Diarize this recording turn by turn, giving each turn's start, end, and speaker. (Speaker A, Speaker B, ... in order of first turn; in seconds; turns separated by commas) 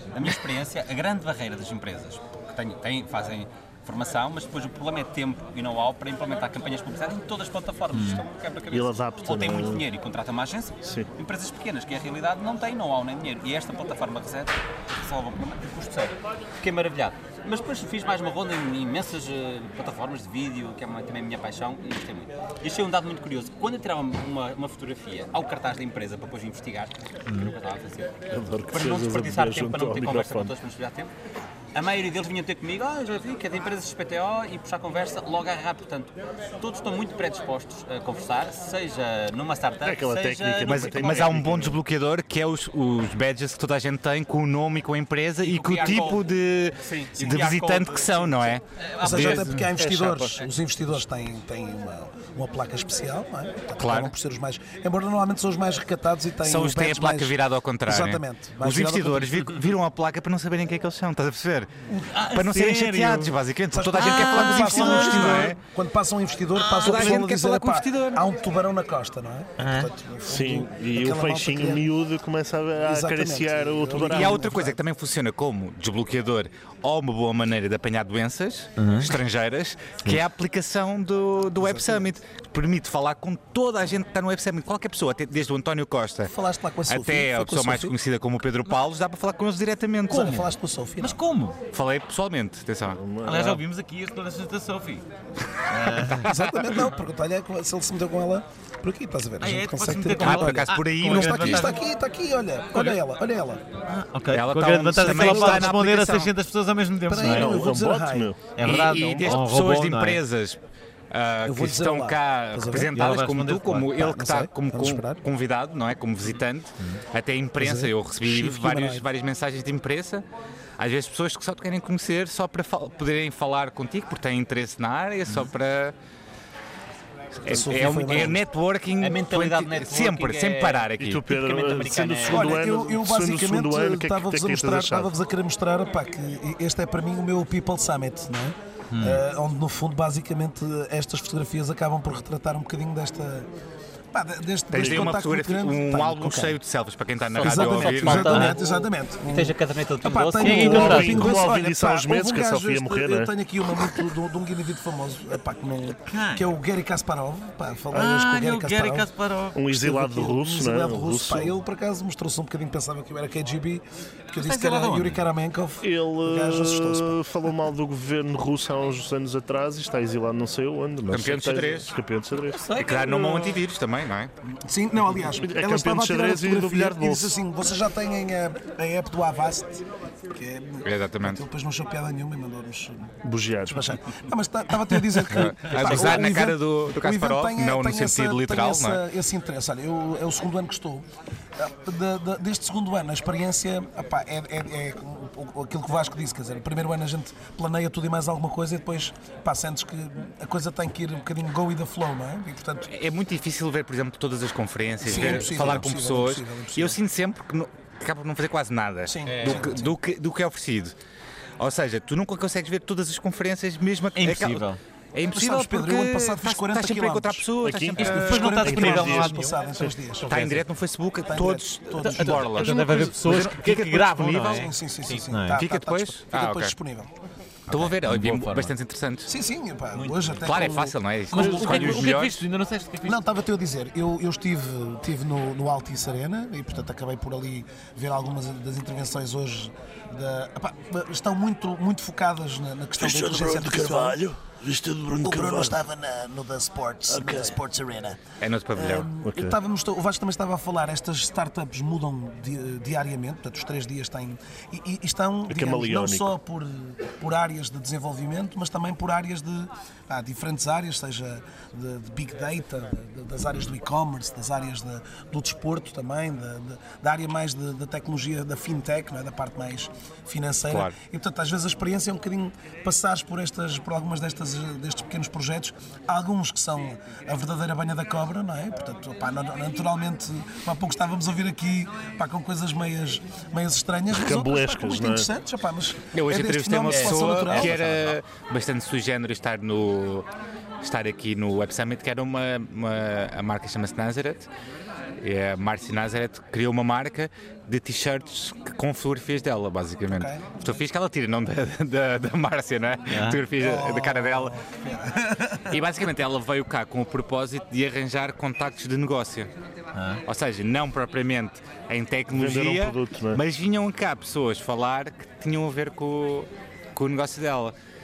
Speaker A: 0.1-28.2, Speaker B: 7.9-8.2, Speaker C: 8.7-9.8, Speaker C: 10.8-11.1, Speaker B: 27.3-27.5, Speaker C: 28.3-30.5, Speaker A: 28.7-31.1, Speaker A: 31.8-41.5, Speaker C: 39.8-41.8, Speaker D: 40.6-50.4, Speaker A: 45.4-46.3, Speaker A: 46.8-49.7, Speaker E: 49.0-59.5, Speaker D: 53.8-54.1, Speaker D: 56.4-61.7, Speaker B: 61.9-63.4, Speaker D: 62.3-65.6, Speaker E: 63.7-71.8, Speaker B: 64.0-65.5, Speaker D: 66.6-68.2, Speaker B: 69.6-69.9, Speaker C: 70.3-74.4, Speaker E: 72.8-74.8, Speaker D: 74.0-86.3, Speaker B: 78.8-79.1, Speaker E: 81.6-82.1, Speaker E: 86.3-88.0, Speaker D: 86.9-90.4, Speaker E: 90.1-91.2, Speaker B: 90.1-90.4, Speaker B: 91.0-91.6, Speaker D: 91.7-93.0, Speaker C: 92.9-93.6, Speaker B: 93.2-95.0, Speaker B: 95.7-96.3, Speaker E: 96.0-103.6, Speaker D: 96.2-96.5, Speaker B: 99.4-101.8, Speaker D: 100.2-101.7, Speaker B: 103.9-107.6, Speaker D: 104.3-106.3, Speaker E: 105.0-105.9, Speaker E: 107.1-108.3, Speaker C: 107.2-108.5, Speaker B: 108.5-110.2, Speaker D: 108.6-110.6, Speaker D: 111.1-120.2, Speaker E: 111.4-115.2, Speaker B: 112.9-113.9, Speaker E: 117.6-119.1, Speaker D: 120.8-126.0, Speaker D: 127.4-131.2, Speaker E: 127.5-128.4, Speaker A: 129.0-132.5, Speaker C: 131.0-135.1, Speaker E: 132.3-143.5, Speaker B: 138.9-139.2, Speaker E: 144.1-146.6, Speaker D: 144.7-148.4, Speaker A: 147.3-151.1, Speaker E: 147.4-159.1, Speaker B: 148.2-148.6, Speaker B: 150.4-151.3, Speaker C: 150.4-153.3, Speaker B: 156.1-156.5, Speaker B: 157.9-159.6, Speaker C: 159.6-161.5, Speaker E: 159.7-167.2, Speaker B: 164.4-165.2, Speaker C: 165.8-172.7, Speaker D: 171.1-171.9, Speaker D: 172.7-174.3, Speaker B: 172.8-173.3, Speaker A: 172.8-173.4, Speaker E: 174.4-183.1, Speaker C: 175.4-177.4, Speaker D: 180.8-181.4, Speaker C: 183.2-183.9, Speaker E: 183.7-191.1, Speaker D: 185.3-189.0, Speaker E: 191.6-202.9, Speaker D: 202.9-210.9, Speaker E: 205.0-207.0, Speaker E: 209.1-209.9, Speaker A: 209.2-209.8, Speaker D: 211.6-218.6, Speaker B: 214.2-214.8, Speaker E: 215.3-217.5, Speaker C: 217.6-219.3, Speaker B: 218.0-220.6, Speaker E: 218.0-220.4, Speaker D: 220.3-224.6, Speaker E: 221.2-222.9, Speaker B: 222.0-225.6, Speaker E: 224.2-227.1, Speaker D: 225.5-226.7, Speaker D: 227.7-229.3, Speaker B: 227.8-228.7, Speaker E: 229.3-232.1, Speaker D: 230.4-232.4, Speaker B: 231.3-233.2, Speaker E: 233.1-244.2, Speaker C: 243.0-245.8, Speaker E: 245.2-248.2, Speaker C: 247.1-247.5, Speaker D: 248.4-249.1, Speaker E: 248.7-287.8, Speaker C: 249.2-249.6, Speaker C: 255.5-256.3, Speaker D: 270.7-270.9, Speaker C: 284.1-285.3, Speaker D: 286.1-290.3, Speaker A: 286.9-288.1, Speaker D: 290.8-294.5, Speaker D: 295.2-304.5, Speaker E: 300.1-300.6, Speaker B: 303.1-303.4, Speaker E: 303.5-305.8, Speaker D: 305.7-309.5, Speaker B: 309.9-310.2, Speaker D: 310.2-317.7, Speaker C: 312.3-313.4